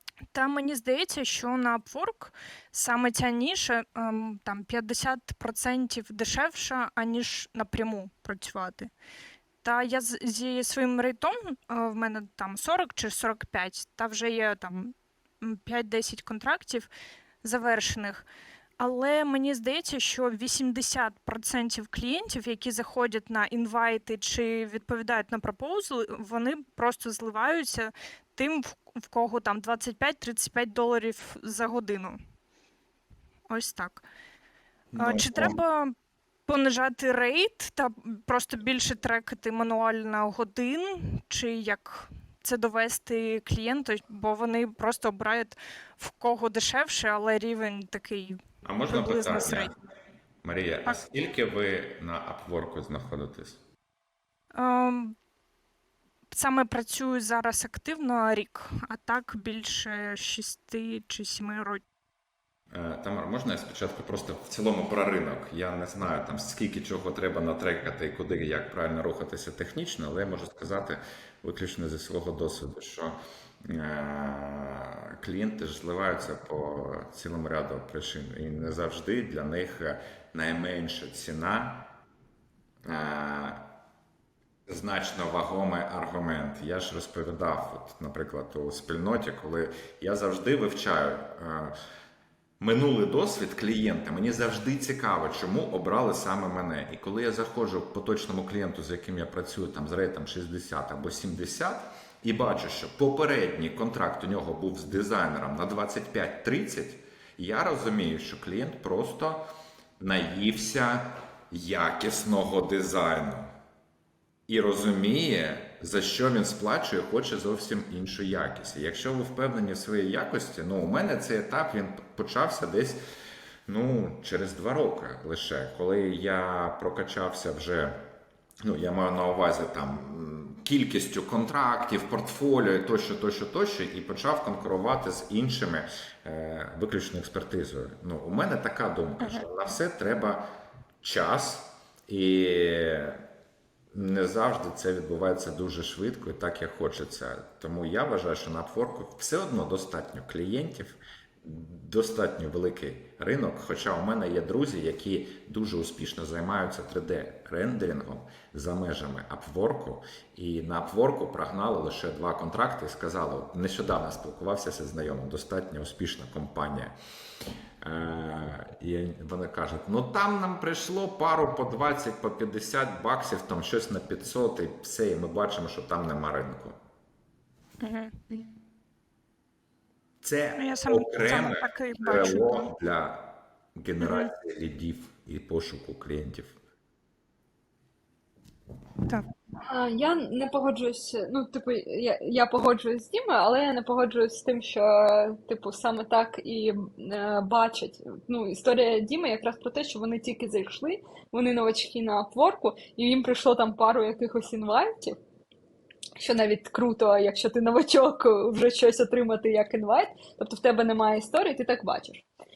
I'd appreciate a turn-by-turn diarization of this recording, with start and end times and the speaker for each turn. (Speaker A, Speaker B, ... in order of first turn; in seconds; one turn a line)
Speaker A: 0.3-8.9
Speaker A: 9.6-16.9
Speaker A: 17.4-18.2
Speaker A: 18.8-32.2
Speaker A: 33.5-34.0
Speaker B: 34.9-35.6
Speaker A: 35.0-35.9
Speaker A: 36.5-49.7
Speaker B: 48.6-49.7
Speaker B: 50.4-53.6
Speaker A: 54.5-55.2
Speaker A: 56.3-61.8
Speaker B: 62.7-81.9
Speaker B: 82.8-83.7
Speaker B: 84.7-91.7
Speaker B: 92.6-109.4
Speaker B: 110.0-113.5
Speaker B: 114.5-123.0
Speaker B: 123.7-128.0
Speaker B: 128.6-140.4
Speaker B: 141.0-143.2
Speaker B: 143.9-166.9
Speaker B: 167.8-176.8
Speaker A: 177.8-178.5
Speaker B: 180.2-186.6
Speaker A: 180.6-182.7
Speaker A: 184.0-184.3
Speaker C: 189.6-205.2
Speaker C: 206.2-212.2